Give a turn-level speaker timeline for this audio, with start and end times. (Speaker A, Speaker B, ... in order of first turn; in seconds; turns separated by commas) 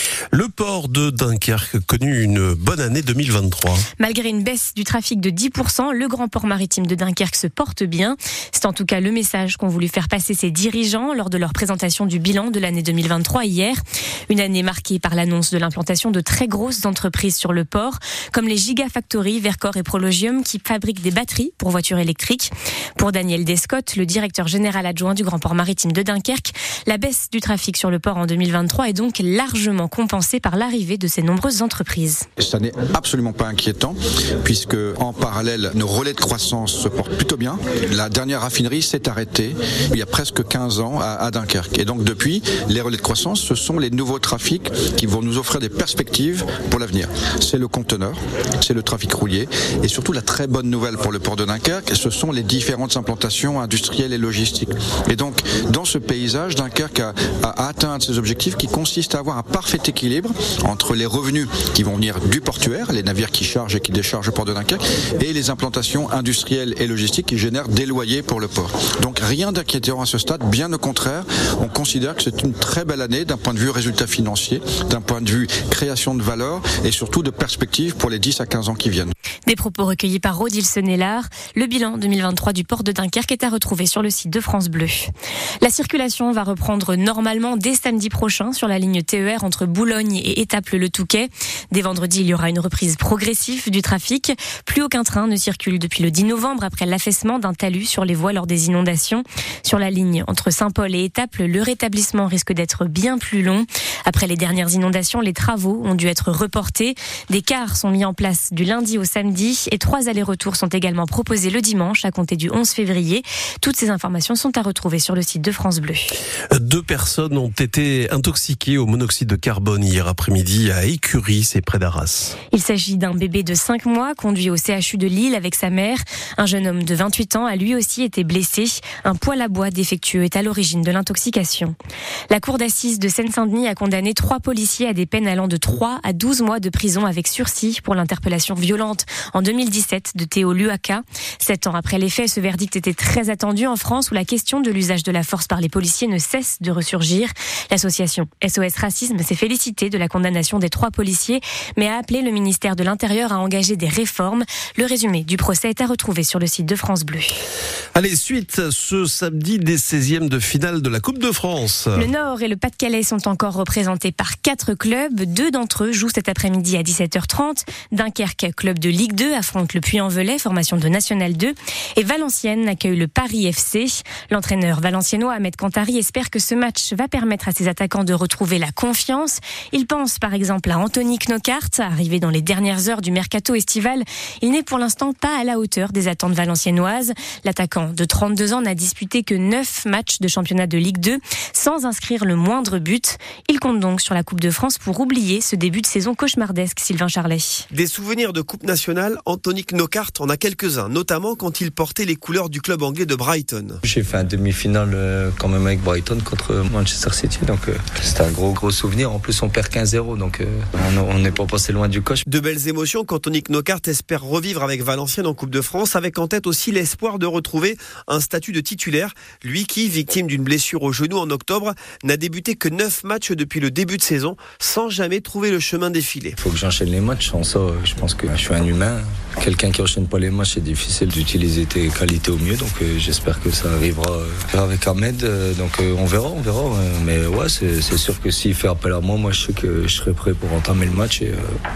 Speaker A: 0.3-3.9, Speaker B: 4.0-32.2, Speaker C: 32.4-79.1, Speaker B: 79.5-85.1, Speaker B: 85.6-116.1, Speaker A: 116.5-122.3, Speaker B: 122.5-131.8, Speaker B: 132.3-157.3, Speaker A: 157.9-162.1, Speaker B: 161.9-197.7, Speaker D: 197.7-203.8, Speaker E: 203.9-212.1, Speaker D: 212.2-226.4, Speaker E: 226.4-241.4